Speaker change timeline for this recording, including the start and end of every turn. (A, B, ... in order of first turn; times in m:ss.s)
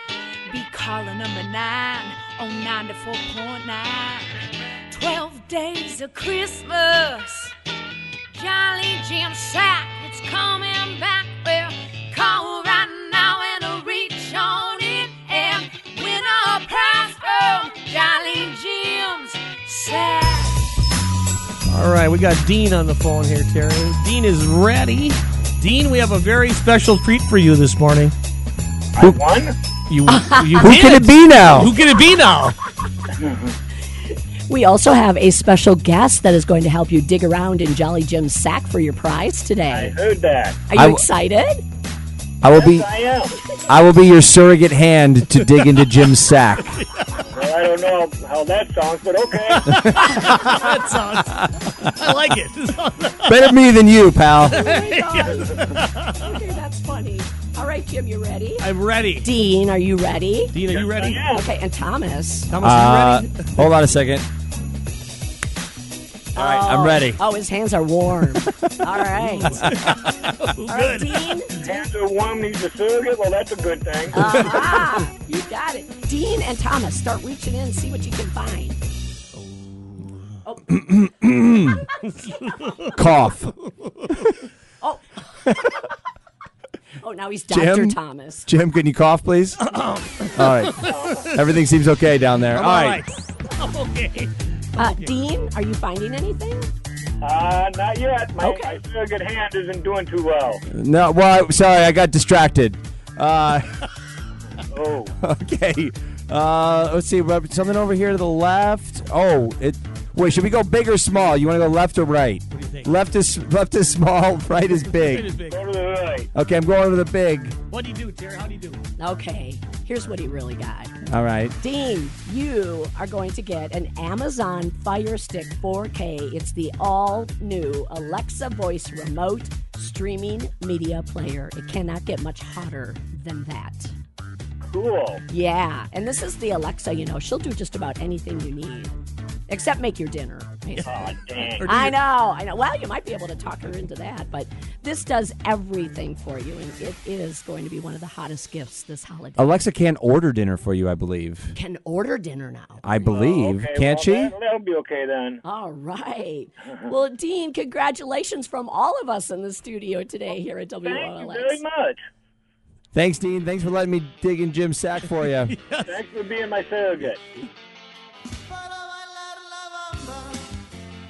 0:00.5-0:04.3 A
0:04.9-0:07.6 A
0:08.3-0:20.7 A
0:21.7-0:28.2 B
0:29.0-0:29.6 C
0:29.9-0:32.6 B
0:30.1-0:30.7 D
0:30.6-0:31.7 E
0:33.1-0:33.5 C
0:34.5-0:40.0 D
0:39.7-0:40.6 C
0:40.7-0:41.6 D
0:40.8-0:41.0 E
0:42.4-0:42.9 E
0:42.5-0:43.4 C
0:43.6-0:46.8 E
0:47.3-0:50.2 C
0:49.6-0:53.5 B
0:53.3-0:54.6 E
0:54.4-0:58.7 D
0:54.5-0:56.3 B
0:58.6-0:59.3 B
0:59.2-1:00.6 D
1:00.5-1:01.3 B
1:00.7-1:01.5 C
1:01.3-1:02.5 D
1:02.5-1:03.7 B
1:02.6-1:04.3 E
1:06.3-1:09.8 D
1:06.4-1:07.2 E
1:08.3-1:08.9 E
1:09.2-1:11.3 B
1:09.5-1:10.0 E
1:10.7-1:11.8 D
1:11.6-1:14.5 C
1:14.1-1:18.8 D
1:19.5-1:20.2 B
1:20.4-1:21.0 D
1:20.8-1:21.8 E
1:22.2-1:22.5 D
1:22.2-1:22.9 B
1:22.8-1:23.5 E
1:24.8-1:25.4 D
1:27.0-1:28.5 D
1:27.5-1:29.6 E
1:29.7-1:31.4 B
1:30.4-1:33.0 E
1:30.8-1:31.3 C
1:32.6-1:35.1 B
1:34.8-1:36.7 D
1:37.2-1:40.6 C
1:38.4-1:38.8 D
1:40.7-1:43.7 E
1:44.7-1:45.2 C
1:45.2-1:55.3 E
1:52.5-1:52.9 B
1:55.0-1:55.6 B
1:55.5-1:56.3 C
1:56.3-1:57.6 E
1:57.7-1:58.8 B
1:59.0-2:00.9 D
2:01.1-2:01.6 E
2:01.6-2:13.9 D
2:14.6-2:15.2 C
2:15.3-2:19.0 D
2:19.5-2:29.6 D
2:20.8-2:21.9 C
2:21.6-2:22.0 B
2:29.4-2:31.6 E
2:31.5-2:32.9 D
2:32.8-2:34.3 E
2:33.0-2:35.4 C
2:35.4-2:41.6 D
2:40.8-2:42.0 C
2:42.9-2:45.6 E
2:45.5-2:46.0 B
2:45.8-2:47.2 C
2:48.7-2:50.4 B